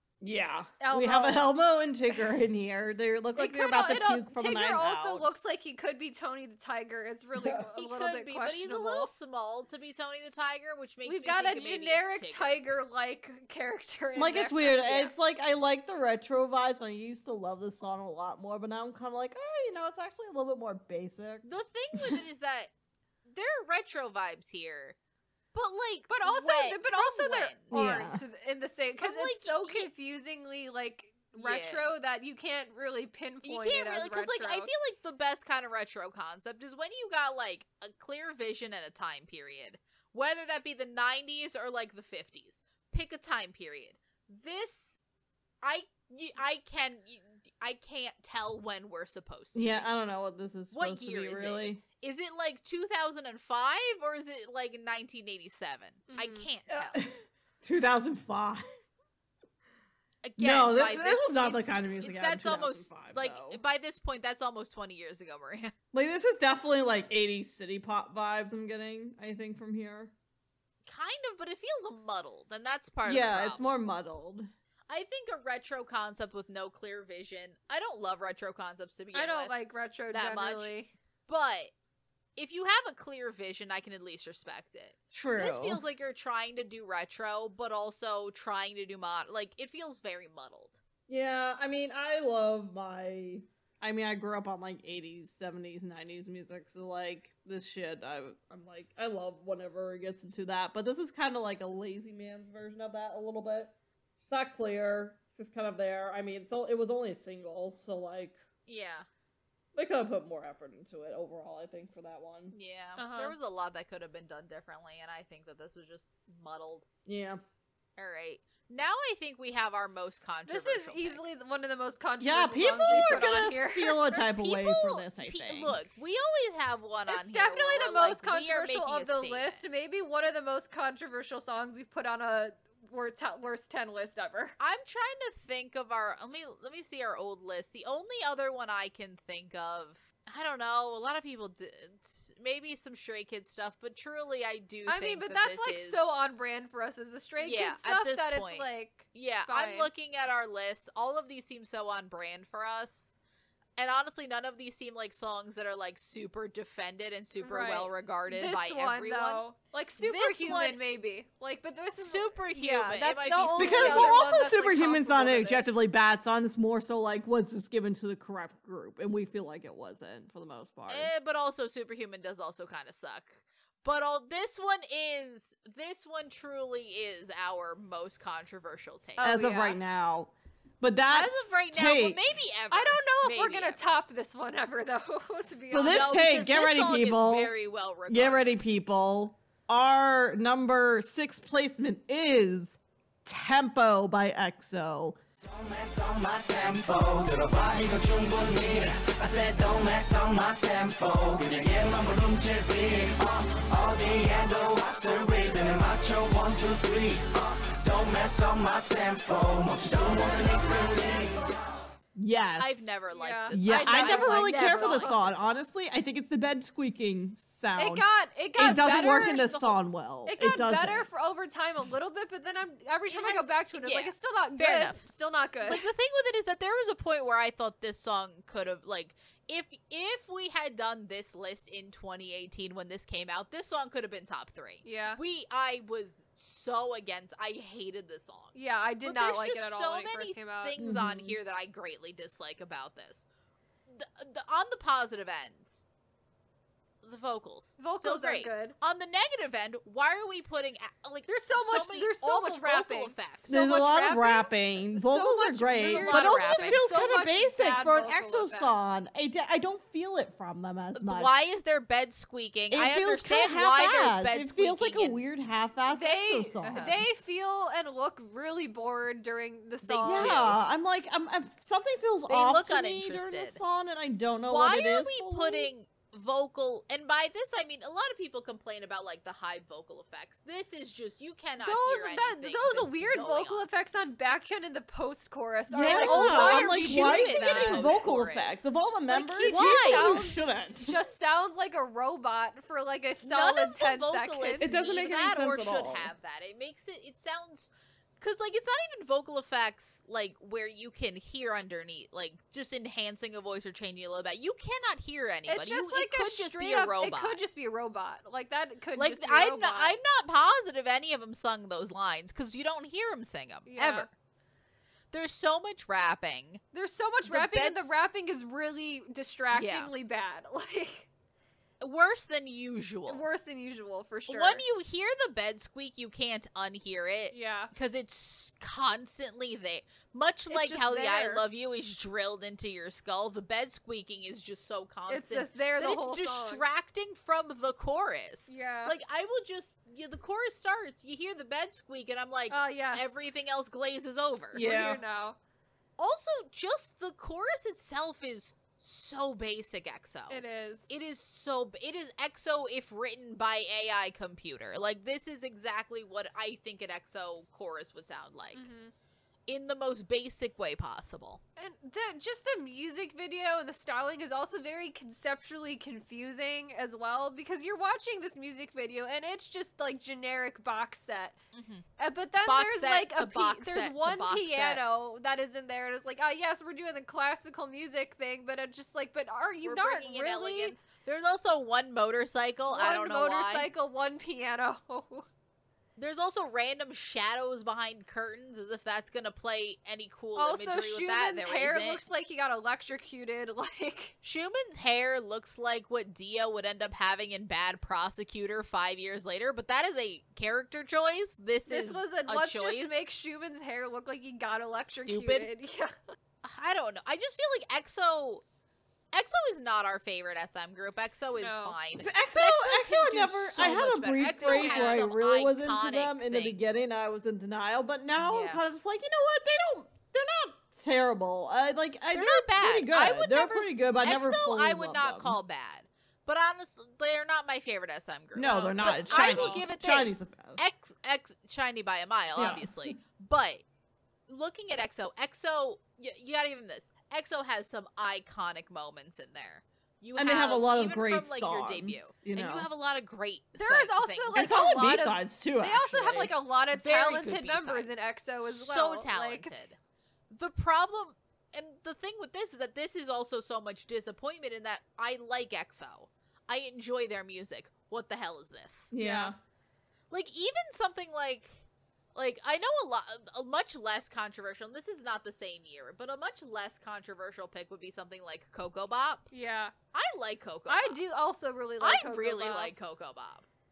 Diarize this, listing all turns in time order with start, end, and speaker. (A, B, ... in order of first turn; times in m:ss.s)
0:00.2-0:05.3 A
0:00.8-0:01.5 B
0:03.4-0:09.1 B
0:07.4-0:07.6 A
0:07.8-0:12.6 C
0:11.0-0:15.1 B
0:14.2-0:22.2 A
0:21.4-0:22.7 C
0:23.3-0:25.0 C
0:25.5-0:27.7 C
0:26.1-0:34.7 B
0:27.7-0:28.2 A
0:29.0-0:29.9 C
0:31.4-0:31.9 C
0:33.4-0:45.0 C
0:45.6-0:49.9 C
0:49.5-0:51.8 A
0:50.7-0:57.0 C
0:56.1-0:56.5 B
0:56.7-0:58.6 A
1:00.2-1:05.7 C
1:00.4-1:03.6 A
1:05.9-1:10.1 A
1:10.9-1:13.8 C
1:13.0-1:14.5 A
1:14.9-1:19.5 C
1:19.1-1:20.9 B
1:20.1-1:20.7 C
1:21.3-1:21.7 C
1:22.4-1:30.8 C
1:25.1-1:25.8 A
1:31.1-1:43.8 A
1:44.3-1:48.4 A
1:48.7-1:49.1 C
1:49.8-1:52.6 A
1:52.5-1:56.9 C
1:53.0-1:53.4 B
1:57.1-1:57.4 A
1:58.0-2:01.2 C
2:00.5-2:04.2 B
2:02.2-2:05.8 A
2:02.8-2:03.4 C
2:04.2-2:09.6 C
2:07.1-2:14.6 B
2:14.6-2:26.1 C
2:24.9-2:29.9 B
2:27.4-2:33.1 C
2:33.8-2:39.4 C
2:37.4-2:45.7 B
2:40.0-2:40.8 C
2:42.0-2:44.4 C
2:43.6-2:51.1 A
2:50.9-2:59.3 C
2:59.2-2:59.8 B
2:59.2-3:02.3 A
3:01.1-3:03.8 C
3:02.7-3:06.1 B
3:05.7-3:07.5 A
3:05.9-3:08.6 C
3:08.1-3:15.2 A
3:15.4-3:31.5 D
3:32.2-3:33.0 A
3:32.6-3:35.6 C
3:33.1-3:35.2 B
3:33.5-3:41.1 A
3:37.8-3:39.7 B
3:38.7-3:39.6 C
3:40.3-3:45.9 B
3:43.1-3:45.1 C
3:45.6-4:03.3 C
3:54.8-3:55.2 B
3:58.5-4:00.8 B
4:00.8-4:01.4 A
4:03.9-4:05.8 C
4:07.0-4:13.6 C
4:07.8-4:08.8 B
4:11.3-4:18.8 B
4:13.5-4:21.3 A
4:15.8-4:16.9 C
4:21.0-4:25.2 C
4:22.7-4:27.0 A
4:25.9-4:30.5 B
4:26.6-4:27.0 C
4:29.8-4:30.6 C
4:30.0-4:35.7 A
4:32.3-4:33.6 C
4:34.5-4:43.7 C
4:41.6-4:47.9 B
4:45.7-4:51.0 A
4:45.8-4:48.6 C
4:49.1-4:54.7 B
4:49.4-4:50.2 C
4:53.2-5:07.4 C
4:54.6-4:56.1 A
5:05.5-5:10.0 B
5:09.0-5:14.1 C
5:13.7-5:14.1 B
5:15.1-5:16.6 C
5:16.7-5:21.1 B
5:17.2-5:18.0 C
5:19.5-5:19.9 C
5:21.8-5:23.2 C
5:23.1-5:24.6 B
5:24.3-5:44.7 C
5:27.3-5:27.7 B
5:30.5-5:31.4 B
5:35.1-5:36.6 B
5:38.5-5:38.9 B
5:42.5-5:43.2 B
5:44.5-5:45.0 A
5:44.6-5:45.4 B
5:46.0-5:58.7 C
5:50.3-5:50.9 B
5:58.5-5:58.9 B
5:59.5-6:01.4 C
6:01.6-6:11.4 B
6:11.5-6:11.9 C
6:12.0-6:20.8 B
6:12.4-6:14.8 C
6:19.6-6:23.7 C
6:22.7-6:25.3 B
6:26.0-6:32.0 C
6:30.4-6:34.1 B
6:34.2-6:43.1 C
6:41.7-6:46.2 B
6:44.9-6:45.5 C
6:46.4-6:48.4 C
6:49.1-6:56.9 C
6:51.4-6:51.8 B
6:52.0-7:05.4 A
6:54.4-6:55.1 B
6:58.2-6:58.6 C
7:02.1-7:13.6 C
7:08.4-7:10.6 A
7:09.1-7:09.6 B
7:12.4-7:13.0 A
7:14.3-7:24.6 C
7:20.2-7:22.7 A
7:23.6-7:29.5 B
7:24.3-7:26.3 A
7:26.7-7:29.8 C
7:30.3-7:38.9 C
7:38.9-7:39.4 A
7:39.0-7:39.3 B
7:40.1-7:49.3 C
7:49.3-7:49.7 B
7:49.9-7:51.0 C
7:50.7-7:52.7 B
7:51.8-7:53.5 C